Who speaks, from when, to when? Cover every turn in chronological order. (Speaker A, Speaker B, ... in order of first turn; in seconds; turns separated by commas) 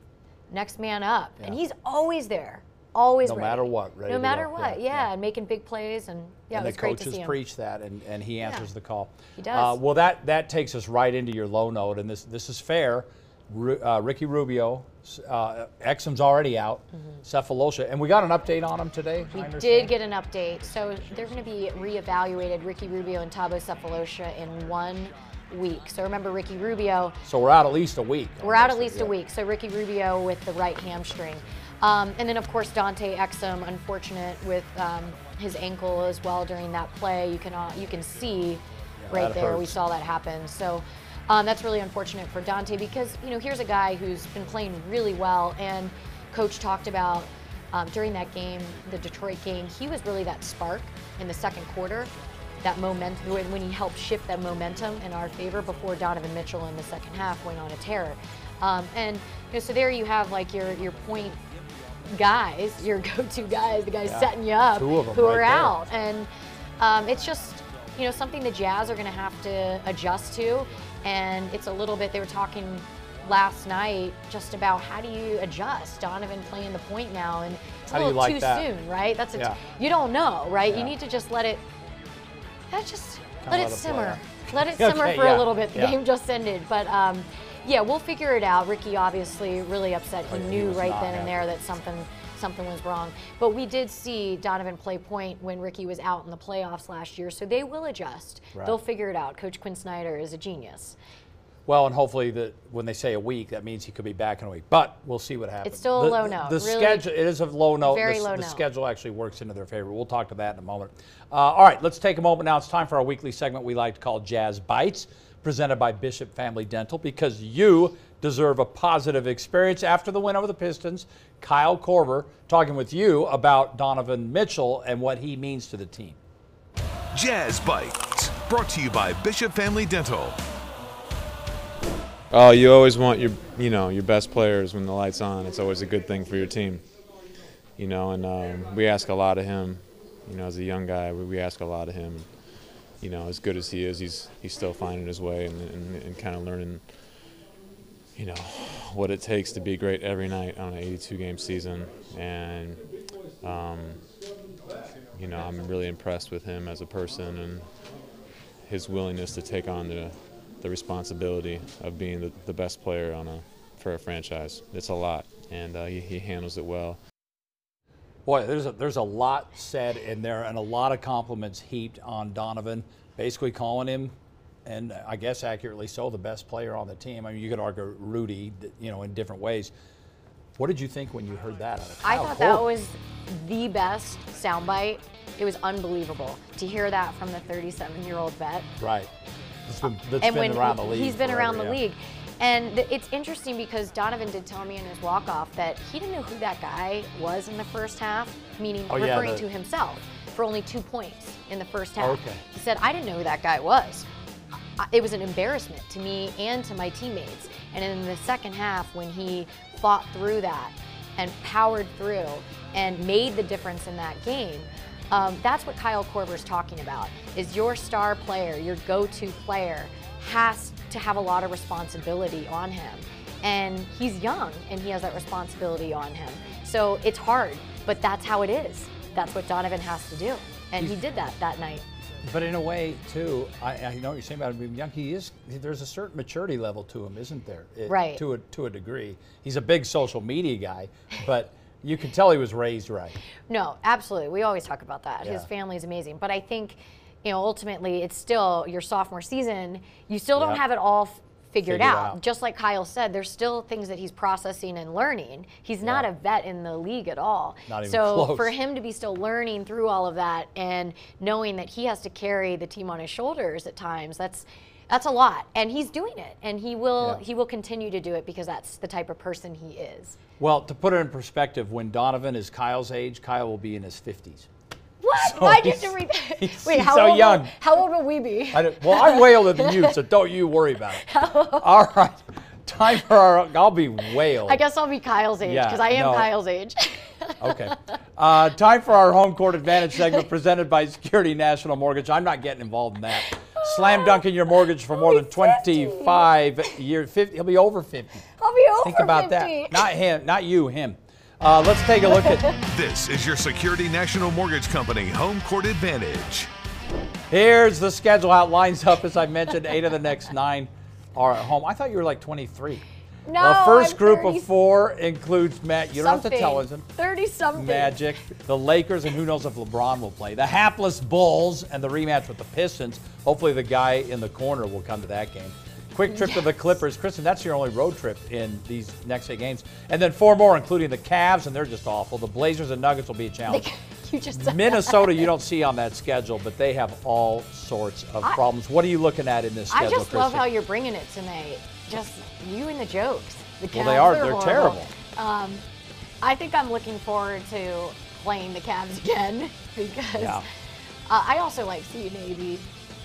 Speaker A: 0.5-7.4, Speaker B: 3.2-5.1, Speaker B: 6.5-19.9, Speaker A: 8.4-8.7, Speaker A: 9.4-9.8, Speaker A: 19.3-27.2, Speaker B: 27.2-29.1, Speaker A: 28.4-61.4, Speaker B: 39.0-39.8, Speaker A: 62.1-81.7, Speaker B: 64.0-65.8, Speaker B: 77.9-78.7, Speaker B: 80.7-80.9, Speaker A: 82.7-101.0, Speaker B: 83.4-86.0, Speaker B: 90.3-91.4, Speaker B: 101.7-126.2, Speaker A: 105.6-107.1, Speaker A: 107.8-108.6, Speaker C: 127.1-130.4, Speaker D: 132.3-136.9, Speaker D: 137.8-147.0, Speaker D: 148.1-152.8, Speaker D: 153.4-154.0, Speaker D: 155.1-157.7, Speaker D: 158.6-167.0, Speaker B: 168.2-174.1, Speaker B: 174.7-179.7, Speaker B: 180.6-182.7, Speaker A: 182.0-188.7, Speaker B: 188.8-189.1, Speaker B: 189.7-191.8, Speaker A: 190.2-204.1, Speaker B: 198.9-199.4, Speaker B: 202.0-202.4, Speaker A: 204.8-231.8, Speaker B: 232.2-243.2, Speaker A: 237.9-238.2, Speaker A: 243.5-270.2, Speaker B: 251.6-252.2, Speaker B: 255.8-256.1, Speaker B: 257.7-258.5, Speaker B: 270.4-274.5, Speaker A: 275.0-280.0, Speaker B: 275.1-277.5, Speaker B: 278.5-284.6, Speaker A: 281.0-281.7, Speaker A: 284.4-287.7, Speaker B: 285.4-286.3, Speaker B: 287.4-298.2, Speaker A: 293.3-294.2, Speaker A: 294.9-296.3, Speaker A: 298.4-299.9, Speaker B: 298.8-302.5, Speaker A: 302.1-302.6, Speaker C: 302.6-306.5, Speaker B: 307.3-312.8, Speaker A: 313.2-314.5, Speaker B: 313.4-316.9, Speaker A: 315.9-318.0, Speaker B: 317.5-333.7, Speaker A: 333.5-335.3, Speaker B: 334.3-340.5, Speaker A: 339.7-345.6, Speaker B: 343.7-344.9, Speaker A: 346.2-350.4, Speaker B: 350.1-350.4, Speaker A: 351.1-352.7